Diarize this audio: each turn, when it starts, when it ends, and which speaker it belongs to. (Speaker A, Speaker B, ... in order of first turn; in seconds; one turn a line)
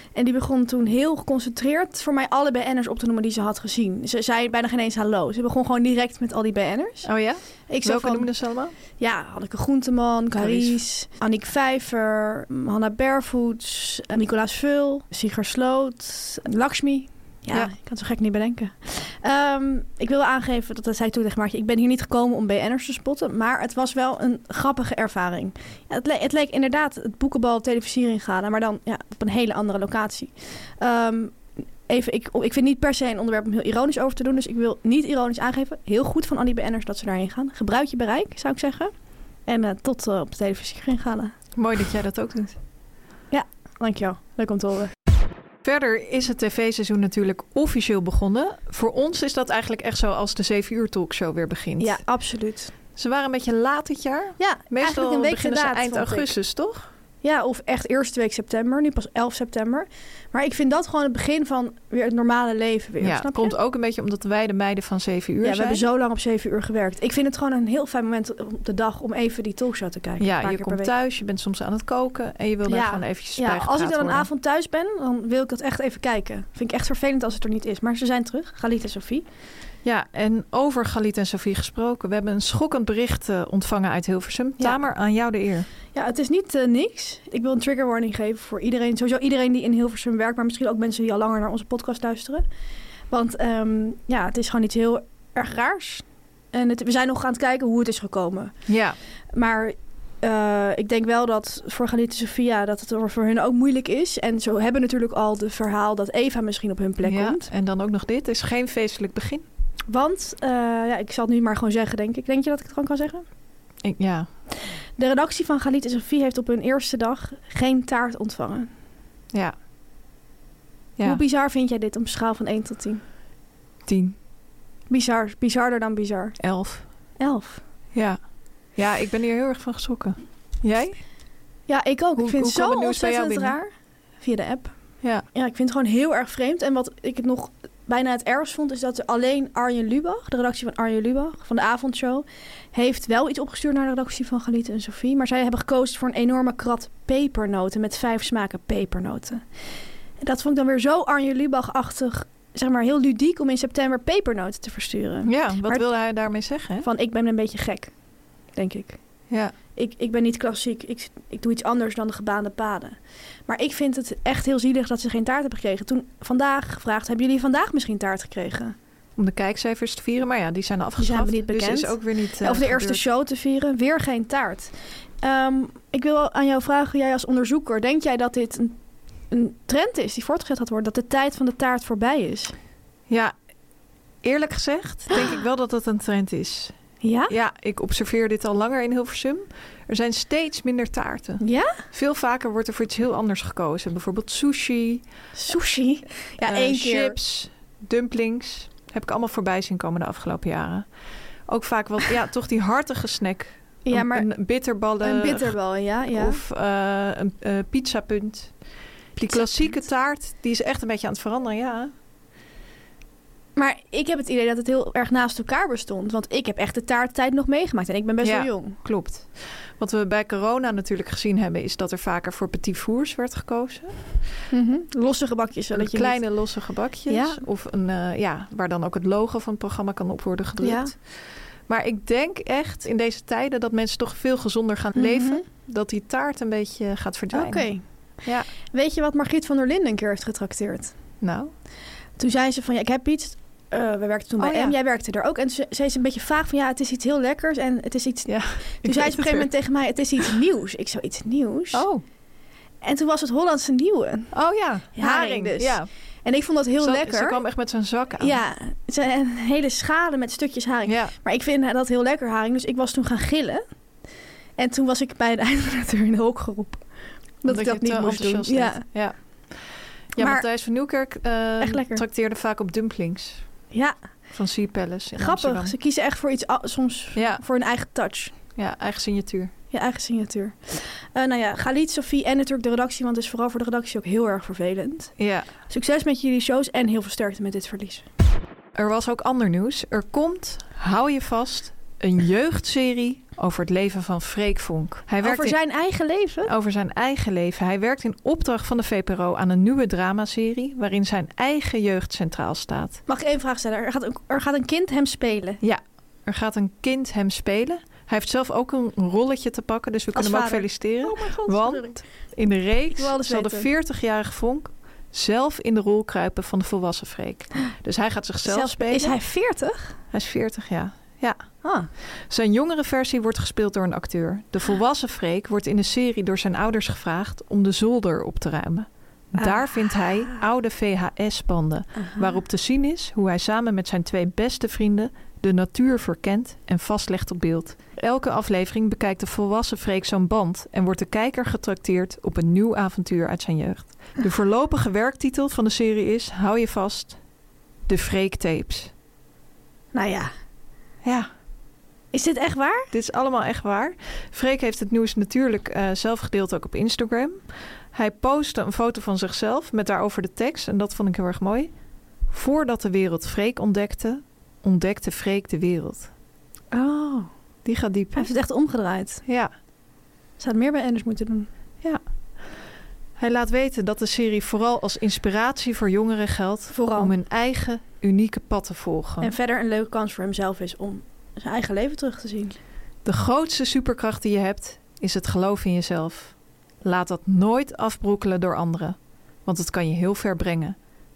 Speaker A: 0.1-7.1
Speaker B: 7.0-8.7
Speaker A: 7.7-8.3
Speaker A: 9.0-31.4
Speaker B: 10.3-10.8
Speaker A: 31.9-38.9
Speaker A: 39.5-41.3
Speaker B: 41.5-42.5
Speaker A: 43.3-44.9
Speaker B: 45.6-52.0
Speaker A: 51.8-52.7
Speaker B: 53.0-56.9
Speaker A: 54.4-56.3
Speaker A: 57.2-63.5
Speaker B: 63.0-65.8
Speaker A: 65.4-70.9
Speaker B: 70.2-74.3
Speaker A: 72.7-79.2
Speaker B: 79.8-85.7
Speaker A: 85.9-92.4
Speaker A: 93.1-98.5
Speaker B: 98.7-99.0
Speaker A: 99.3-107.5
Speaker B: 107.0-109.4
Speaker A: 109.9-113.2
Speaker B: 113.8-114.3
Speaker A: 115.0-118.7
Speaker A: 121.0-123.0
Speaker B: 123.8-124.2
Speaker A: 124.9-126.4
Speaker B: 126.4-126.8
Speaker A: 127.2-127.6
Speaker B: 127.9-128.2
Speaker B: 128.8-131.0
Speaker A: 131.7-133.7
Speaker B: 132.2-133.6
Speaker A: 134.2-134.7
Speaker A: 135.3-149.4
Speaker A: 150.2-155.9
Speaker B: 155.2-156.9
Speaker A: 156.8-157.9
Speaker A: 158.5-159.0
Speaker A: 159.7-168.7
Speaker B: 169.2-173.0
Speaker A: 171.0-178.8
Speaker A: 179.3-182.5
Speaker B: 183.1-183.3
Speaker B: 184.2-186.7
Speaker A: 187.0-187.3
Speaker B: 187.3-195.0
Speaker A: 191.4-191.8
Speaker A: 195.3-197.2
Speaker B: 196.4-200.9
Speaker B: 201.5-208.5
Speaker A: 203.8-204.3
Speaker A: 205.0-206.4
Speaker B: 209.2-211.9
Speaker A: 209.3-209.8
Speaker A: 213.6-218.8
Speaker B: 218.2-224.1
Speaker A: 224.5-226.3
Speaker B: 225.7-238.5
Speaker A: 227.1-227.4
Speaker A: 230.6-230.9
Speaker A: 234.9-235.4
Speaker A: 237.3-237.8
Speaker A: 238.7-240.9
Speaker B: 241.2-241.5
Speaker A: 242.2-251.8
Speaker B: 244.4-244.7
Speaker B: 248.2-249.5
Speaker B: 251.7-252.0
Speaker A: 252.8-254.3
Speaker B: 254.3-255.9
Speaker A: 254.9-257.4
Speaker B: 256.8-258.4
Speaker A: 258.2-263.6
Speaker B: 260.9-261.1
Speaker A: 264.6-266.9
Speaker A: 267.4-268.8
Speaker B: 267.4-273.4
Speaker A: 270.2-270.4
Speaker A: 271.6-272.0
Speaker A: 273.7-274.0
Speaker B: 274.3-275.7
Speaker A: 275.2-278.3
Speaker B: 277.1-277.4
Speaker B: 278.6-279.5
Speaker A: 279.7-285.1
Speaker B: 285.2-285.5
Speaker A: 285.7-288.0
Speaker B: 288.7-295.6
Speaker A: 295.2-296.5
Speaker B: 296.4-303.0
Speaker A: 303.1-305.6
Speaker B: 305.6-319.1
Speaker A: 310.1-312.0
Speaker A: 312.9-313.7
Speaker A: 318.4-319.9
Speaker B: 320.1-321.4
Speaker A: 321.6-321.9
Speaker B: 322.0-347.2
Speaker A: 329.4-330.4
Speaker A: 332.0-332.3
Speaker B: 347.9-348.9
Speaker A: 349.9-350.3
Speaker A: 352.1-352.9
Speaker B: 352.9-361.7
Speaker B: 362.3-366.1
Speaker A: 366.7-367.3
Speaker B: 367.6-368.3
Speaker A: 368.1-369.2
Speaker B: 369.2-369.5
Speaker A: 370.4-371.5
Speaker B: 373.2-379.3
Speaker A: 376.7-377.1
Speaker A: 379.2-382.6
Speaker B: 383.0-390.8